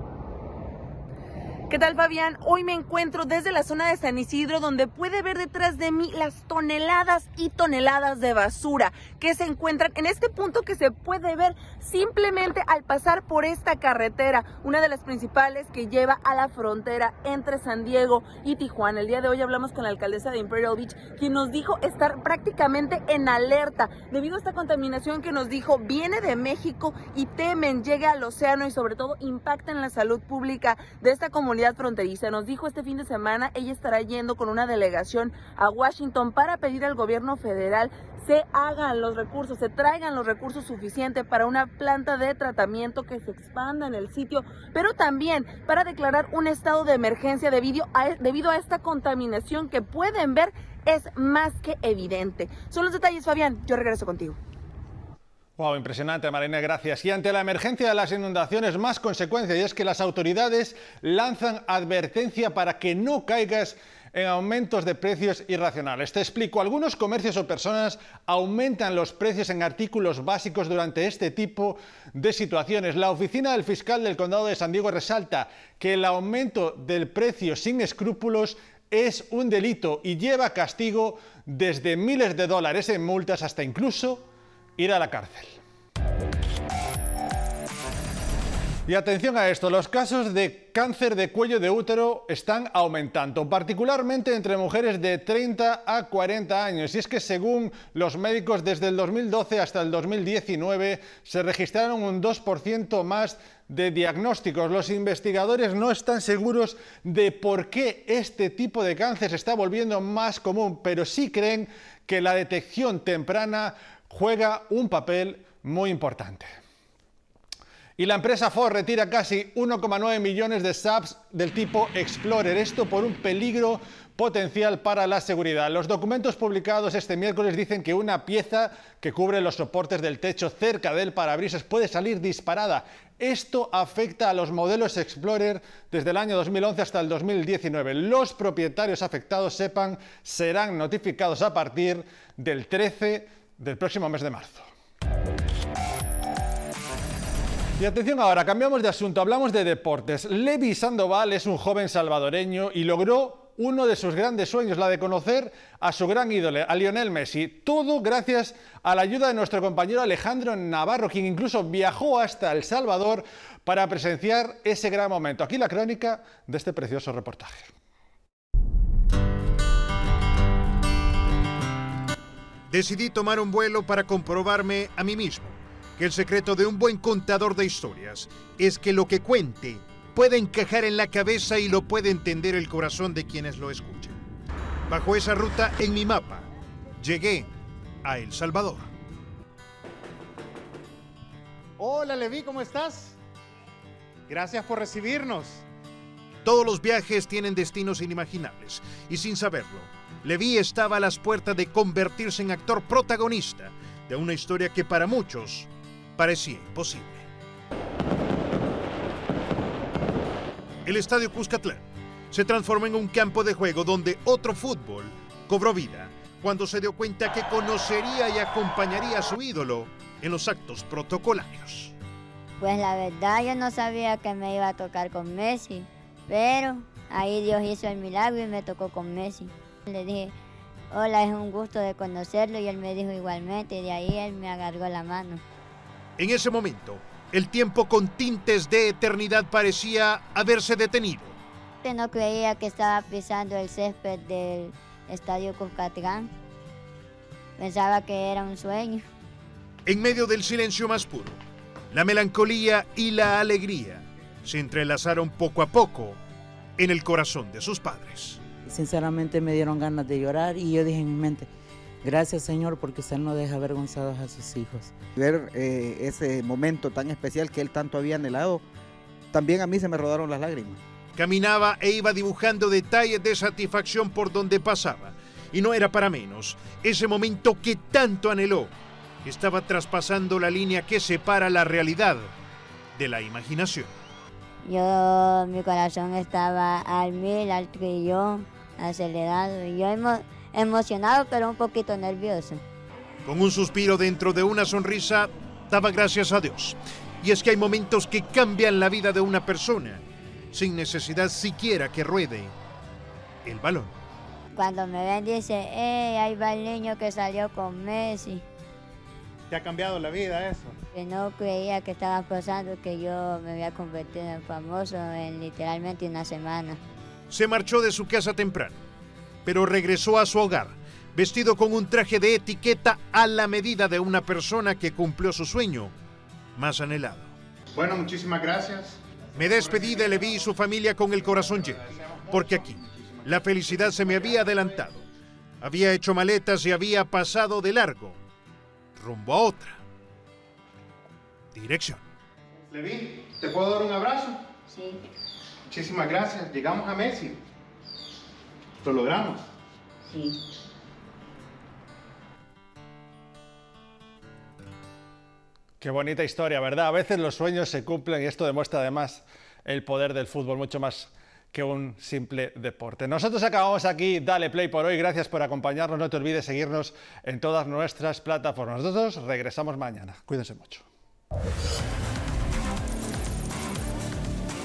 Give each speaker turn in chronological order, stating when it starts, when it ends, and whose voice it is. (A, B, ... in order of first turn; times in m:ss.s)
0:01.7-0:54.4 A
0:55.6-1:25.6 B
1:28.9-1:56.5 B
1:58.0-2:24.7 B
2:27.8-2:47.7 B
2:52.7-3:04.2 C
3:04.9-3:06.5 C
3:07.0-3:07.5 C
3:08.0-3:08.9 C
3:11.8-3:13.1 D
3:14.4-3:15.6 D
3:16.4-3:27.3 C
3:30.9-3:41.9 C
3:42.6-3:50.3 E
3:50.9-3:55.4 E
3:56.2-4:01.4 C
4:01.8-4:06.3 E
4:07.6-4:09.0 E
4:09.9-4:11.4 C
4:11.9-4:16.2 C
4:16.8-4:18.4 C
4:18.7-4:21.5 F
4:22.0-4:25.0 F
4:25.2-4:28.6 G
4:29.3-4:30.8 G
4:31.2-4:38.7 C
4:39.2-4:42.3 C
4:43.0-4:43.9 C
4:44.6-4:52.6 E
4:53.2-5:00.0 C
5:00.5-5:02.5 C
5:03.4-5:04.0 C
5:04.5-5:08.4 E
5:09.5-5:10.7 D
5:10.9-5:16.8 E
5:17.3-5:18.8 C
5:19.4-5:25.9 C
5:26.6-5:27.3 C
5:27.8-5:30.2 D
5:29.4-5:35.0 C
5:32.3-5:32.7 D
5:33.3-5:34.4 D
5:35.6-5:38.2 C
5:39.0-5:39.8 C
5:41.5-5:42.0 C
5:42.7-5:44.4 D
5:44.7-5:45.0 E
5:45.7-5:47.4 D
5:48.8-5:49.4 D
5:55.8-6:10.9 B